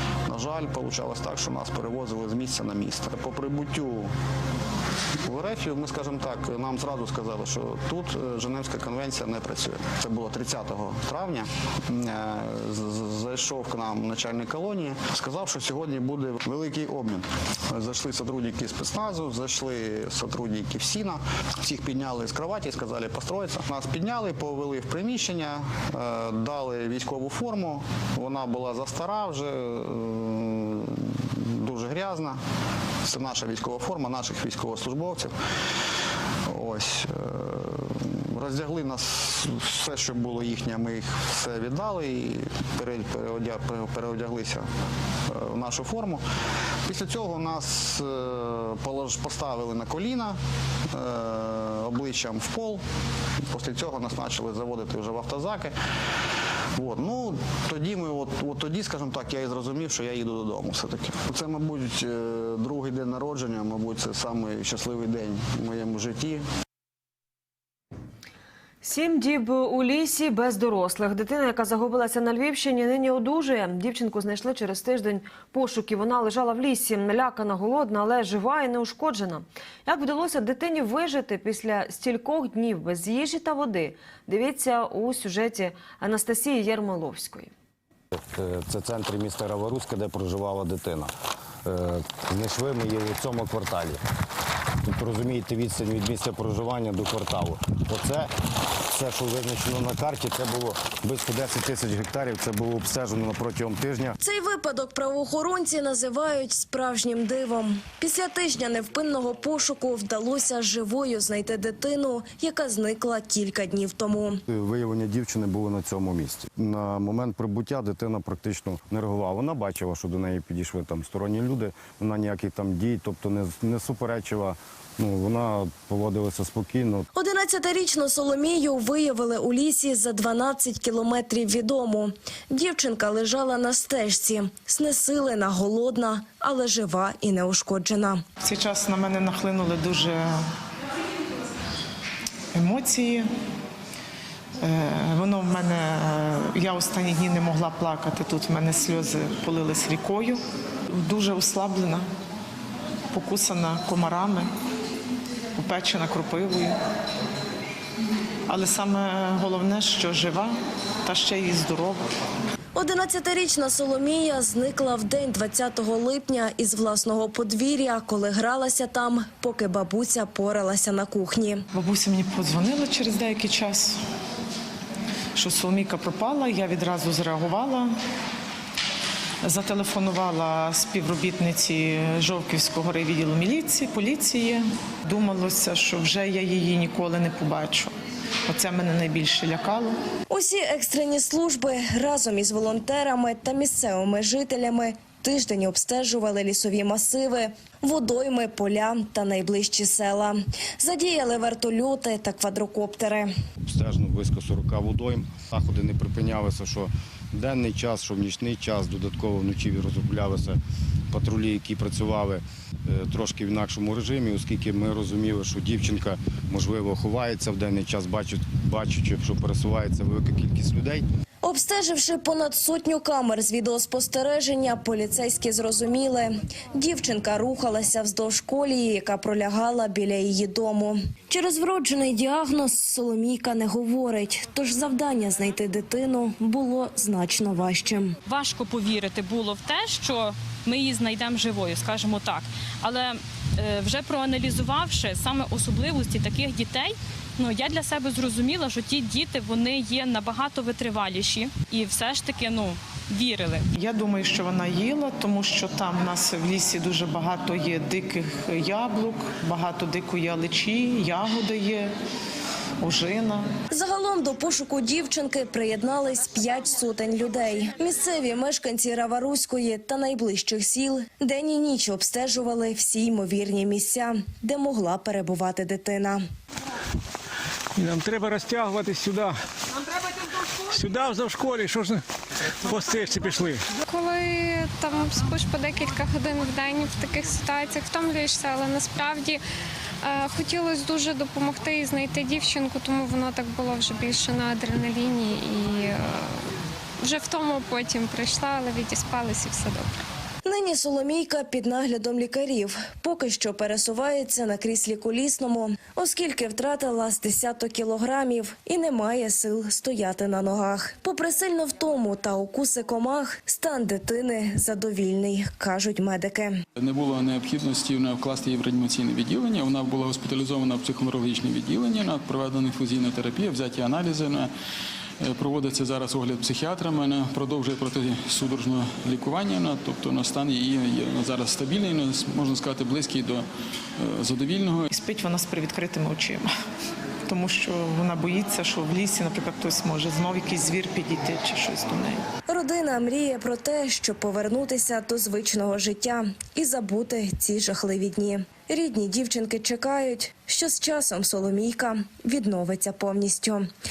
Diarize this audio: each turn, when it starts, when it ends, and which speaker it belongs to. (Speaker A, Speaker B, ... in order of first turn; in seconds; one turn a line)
Speaker A: 0.3-4.1
Speaker A: 5.2-32.4
Speaker A: 33.0-35.3
Speaker A: 36.5-44.7
Speaker A: 45.3-46.2
Speaker A: 46.9-50.4
Speaker A: 50.9-52.8
Speaker A: 53.5-55.8
Speaker A: 56.8-66.5
Speaker B: 68.8-87.5
Speaker C: 88.1-91.1
Speaker C: 91.6-94.0
Speaker C: 94.8-98.3
Speaker C: 98.9-104.2
Speaker D: 104.2-114.4
Speaker C: 114.5-127.1
Speaker D: 127.1-138.2
Speaker E: 138.4-140.4
Speaker E: 142.5-143.3
Speaker E: 144.6-152.1
Speaker E: 153.1-154.5
Speaker E: 155.6-156.8
Speaker E: 158.5-162.1
Speaker D: 162.8-171.6
Speaker E: 171.7-174.0
Speaker E: 175.4-177.9
Speaker E: 179.4-187.9
Speaker E: 188.4-189.9
Speaker D: 190.3-203.3
Speaker C: 203.6-210.6
Speaker C: 211.1-221.1
Speaker D: 221.4-238.2
Speaker F: 238.3-253.7
Speaker E: 253.8-261.9
Speaker E: 262.8-263.5
Speaker D: 263.7-276.2
Speaker G: 277.8-279.4
Speaker G: 280.7-282.0
Speaker G: 282.7-283.6
Speaker H: 283.9-289.4
Speaker H: 290.0-296.3
Speaker H: 297.0-299.9
Speaker D: 300.4-316.6
Speaker I: 316.8-324.5
Speaker I: 325.2-333.5
Speaker I: 334.0-334.9
Speaker E: 334.9-336.5
Speaker E: 337.3-342.2
Speaker D: 342.5-353.7